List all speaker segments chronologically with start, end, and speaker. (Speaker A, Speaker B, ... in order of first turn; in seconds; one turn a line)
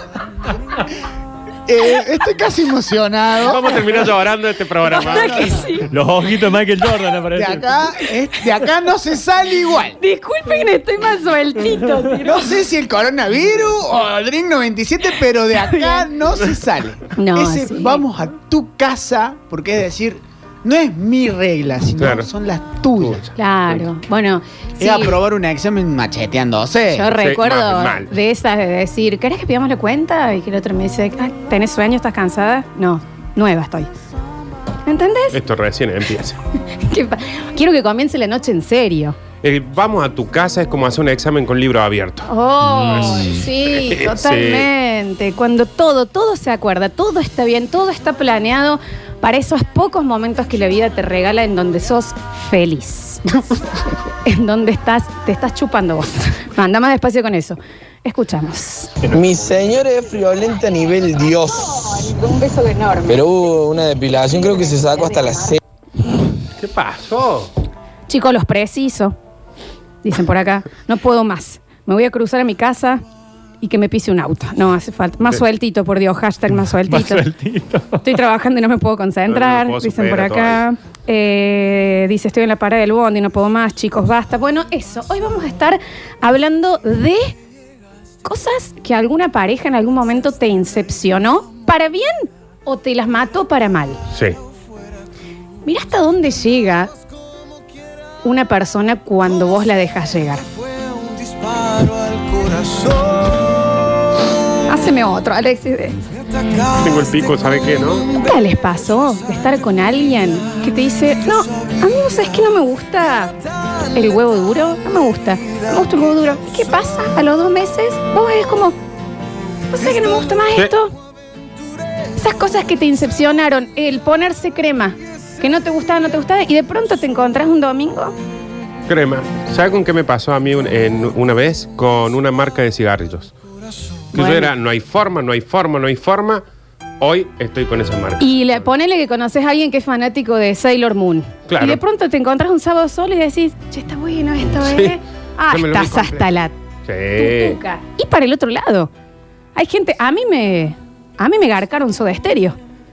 Speaker A: 1.7-3.7
Speaker B: 3.4-5.5
Speaker C: 4.9-5.9
Speaker A: 5.0-5.6
Speaker D: 5.9-7.7
Speaker A: 7.3-10.0
Speaker C: 10.0-12.4
Speaker A: 12.2-23.2
Speaker C: 15.7-16.1
Speaker C: 17.1-18.0
Speaker B: 22.0-22.3
Speaker B: 23.0-23.3
Speaker C: 23.4-25.2
Speaker A: 24.8-27.1
Speaker C: 26.9-33.9
Speaker B: 27.1-28.1
Speaker C: 34.9-35.4
Speaker B: 35.3-36.4
Speaker C: 36.7-39.2
Speaker B: 39.4-44.7
Speaker C: 42.3-53.4
Speaker C: 54.1-58.9
Speaker E: 59.1-61.7
Speaker C: 61.9-63.2
Speaker E: 63.1-65.6
Speaker B: 66.6-67.5
Speaker C: 68.1-69.2
Speaker C: 70.0-73.0
Speaker C: 73.6-77.3
Speaker D: 76.9-78.0
Speaker C: 78.0-87.4
Speaker B: 79.3-80.6
Speaker C: 88.2-94.0
Speaker C: 95.7-96.9
Speaker C: 98.2-100.4
Speaker C: 104.7-106.0
Speaker B: 106.7-108.1
Speaker C: 108.2-113.3
Speaker C: 113.9-118.8
Speaker C: 119.7-121.0
Speaker C: 122.2-128.1
Speaker B: 128.9-133.3
Speaker C: 134.1-134.5
Speaker B: 134.1-136.4
Speaker B: 137.0-138.6
Speaker C: 138.2-146.5
Speaker B: 141.5-141.8
Speaker B: 144.5-145.0
Speaker B: 145.5-146.3
Speaker B: 146.9-147.6
Speaker C: 147.2-148.9
Speaker C: 149.6-152.6